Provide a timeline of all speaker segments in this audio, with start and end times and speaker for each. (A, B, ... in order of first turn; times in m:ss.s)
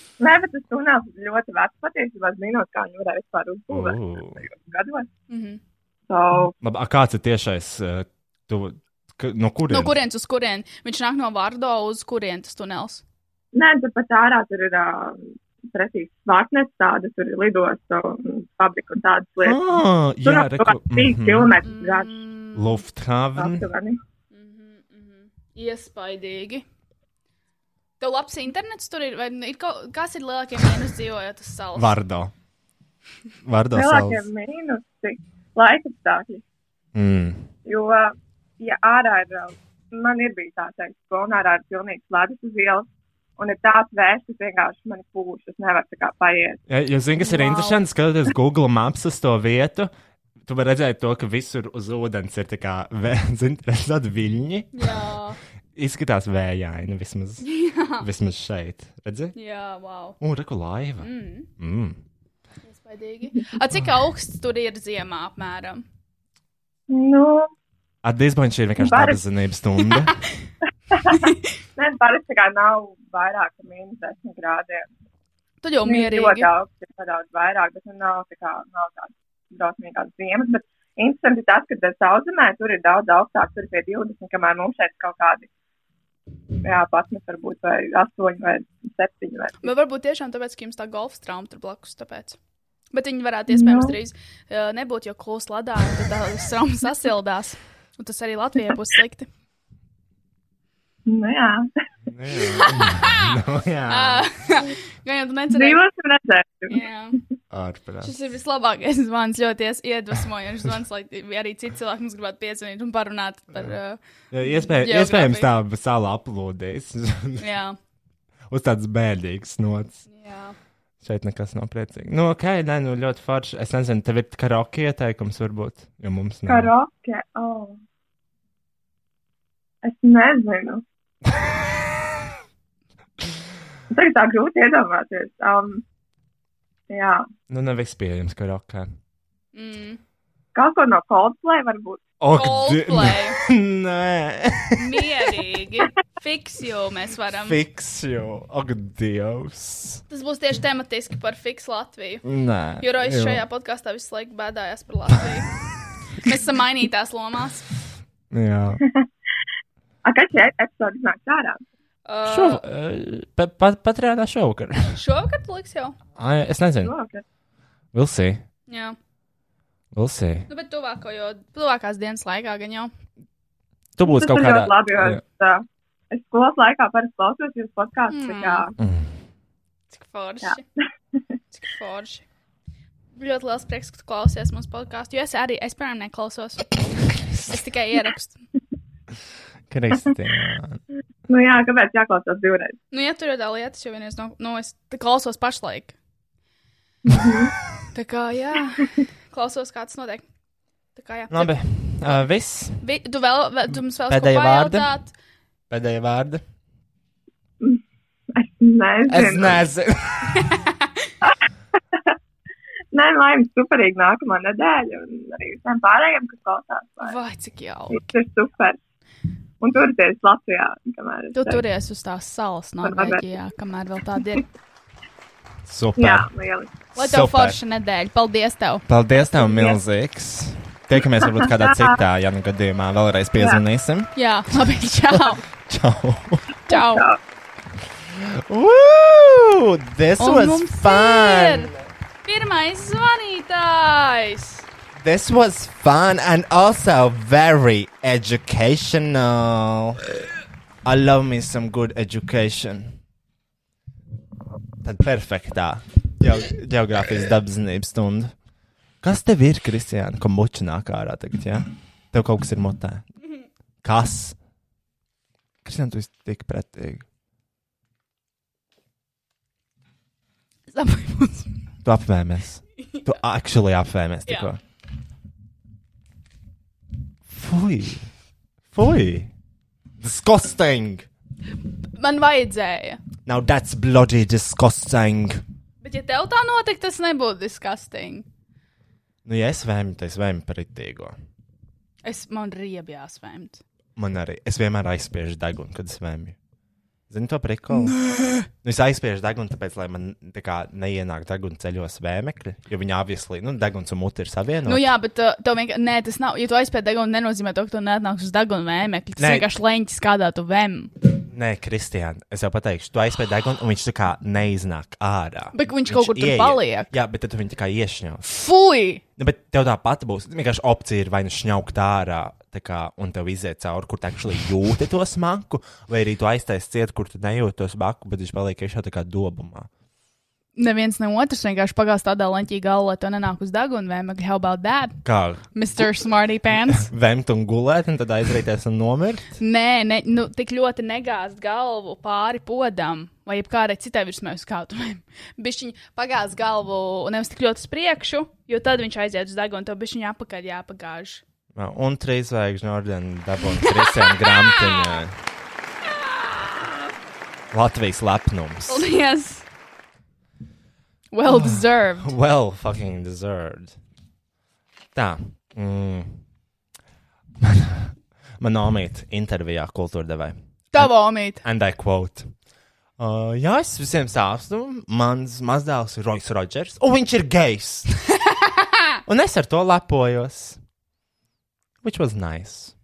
0:00.2-0:05.1 A
0:03.7-0:04.4 B
0:05.3-0:05.6 C
0:06.1-0:06.6 A
0:06.6-0:10.0 B
0:09.7-0:13.0 C
0:13.5-0:19.6 A
0:19.4-0:21.6 B
0:20.2-0:22.3 A
0:21.6-0:22.8 C
0:22.6-0:23.7 B
0:23.4-0:24.0 A
0:24.3-0:26.6 C
0:28.0-0:32.0 C
0:31.7-0:32.3 B
0:33.4-0:34.3 B
0:33.7-0:36.4 A
0:37.0-0:37.5 B
0:37.7-0:42.9 A
0:43.4-0:46.6 A
0:46.7-0:49.9 B
0:47.2-0:47.8 C
0:50.4-0:55.0 B
0:54.7-0:55.4 C
0:55.7-0:57.4 B
0:57.4-0:58.1 C
0:58.0-0:59.4 B
0:59.4-1:00.2 C
1:00.2-1:02.0 B
1:01.0-1:01.5 C
1:02.6-1:05.8 C
1:06.9-1:07.5 A
1:08.0-1:10.1 B
1:08.8-1:09.2 A
1:10.9-1:14.9 A
1:15.6-1:16.5 C
1:15.8-1:25.5 A
1:26.6-1:29.7 A
1:29.6-1:32.4 C
1:32.9-1:39.3 C
1:33.5-1:34.0 A
1:41.1-1:41.7 A
1:42.1-1:44.3 B
1:42.5-1:43.3 C
1:43.9-1:45.8 C
1:45.5-1:46.8 A
1:46.7-1:47.2 C
1:47.5-1:48.1 B
1:48.0-1:54.0 C
1:54.3-1:57.4 B
1:54.7-1:55.5 C
1:57.4-1:57.8 C
1:58.5-2:00.0 B
2:00.1-2:00.6 C
2:01.0-2:06.7 B
2:06.5-2:07.8 A
2:09.8-2:10.8 A
2:13.9-2:15.8 A
2:16.9-2:17.3 A
2:17.5-2:19.0 B
2:19.5-2:20.0 C
2:20.6-2:22.1 A
2:22.2-2:25.1 B
2:22.3-2:23.4 C
2:24.8-2:27.6 C
2:27.4-2:30.0 B
2:30.1-2:32.2 C
2:32.2-2:33.4 B
2:32.8-2:35.6 C
2:36.2-2:37.6 C
2:38.3-2:38.8 B
2:40.0-2:41.6 A
2:42.1-2:42.6 C
2:42.3-2:45.0 B
2:44.9-2:46.0 C
2:46.2-2:46.9 B
2:46.8-2:47.2 A
2:47.9-2:48.4 B
2:48.7-2:49.0 C
2:49.9-2:50.5 B
2:50.5-2:52.9 C
2:54.0-2:55.2 B
2:54.0-2:58.7 A
2:58.1-2:58.7 C
2:58.8-2:59.1 B
2:59.9-3:00.6 C
3:01.5-3:02.2 C
3:03.2-3:06.8 C
3:07.3-3:08.4 C
3:09.7-3:10.8 B
3:11.3-3:12.8 A
3:12.9-3:15.9 C
3:17.1-3:17.5 A
3:17.9-3:20.2 C
3:21.0-3:22.3 C
3:21.3-3:22.8 B
3:22.8-3:25.1 C
3:24.1-3:24.9 B
3:25.7-3:26.4 B
3:28.4-3:29.6 A
3:29.1-3:30.4 B
3:30.4-3:30.8 C
3:32.9-3:37.2 A
3:37.0-3:38.1 C
3:37.9-3:38.8 A
3:39.6-3:41.6 A
3:41.3-3:44.4 C
3:42.8-3:43.4 A
3:45.7-3:46.3 B
3:46.0-3:46.8 A
3:47.0-3:48.9 C
3:47.0-3:47.6 B
3:48.9-3:54.1 B
3:49.3-3:49.8 A
3:51.2-3:52.0 A
3:54.2-3:55.4 C
3:55.7-3:56.5 B
3:56.7-3:57.1 C
3:56.7-3:57.2 A
3:58.1-4:01.7 B
4:00.2-4:01.7 C
4:02.2-4:04.6 C
4:05.0-4:10.0 B
4:10.8-4:13.0 B
4:14.8-4:18.4 B
4:19.0-4:23.1 B
4:23.8-4:24.4 B
4:25.6-4:27.0 B
4:30.7-4:31.5 C
4:31.8-4:34.6 B
4:37.3-4:38.1 B
4:38.7-4:39.3 B
4:40.0-4:41.1 B
4:42.0-4:43.0 C
4:43.3-4:45.4 B
4:45.8-4:48.3 C
4:49.2-4:51.2 B
4:52.0-4:53.6 C
4:54.0-4:56.4 B
4:57.1-4:58.0 B
4:57.7-4:58.4 C
4:58.6-5:04.9 B
5:04.7-5:10.9 C
5:09.2-5:09.5 B
5:11.3-5:18.3 B
5:15.5-5:16.9 C
5:18.2-5:19.0 C
5:19.2-5:29.7 B
5:30.6-5:35.0 C
5:35.0-5:35.5 B
5:35.5-5:36.9 C
5:36.8-5:39.3 B
5:39.4-5:51.2 C
5:51.6-5:55.2 B
5:53.6-5:55.0 C
5:56.2-5:56.6 C
5:57.5-5:58.9 B
5:58.7-5:59.4 C
6:01.1-6:02.1 C
6:01.3-6:03.8 B
6:05.0-6:06.2 B
6:07.4-6:12.3 B
6:10.7-6:11.4 C
6:13.0-6:17.9 B
6:19.1-6:20.6 B
6:21.8-6:22.7 B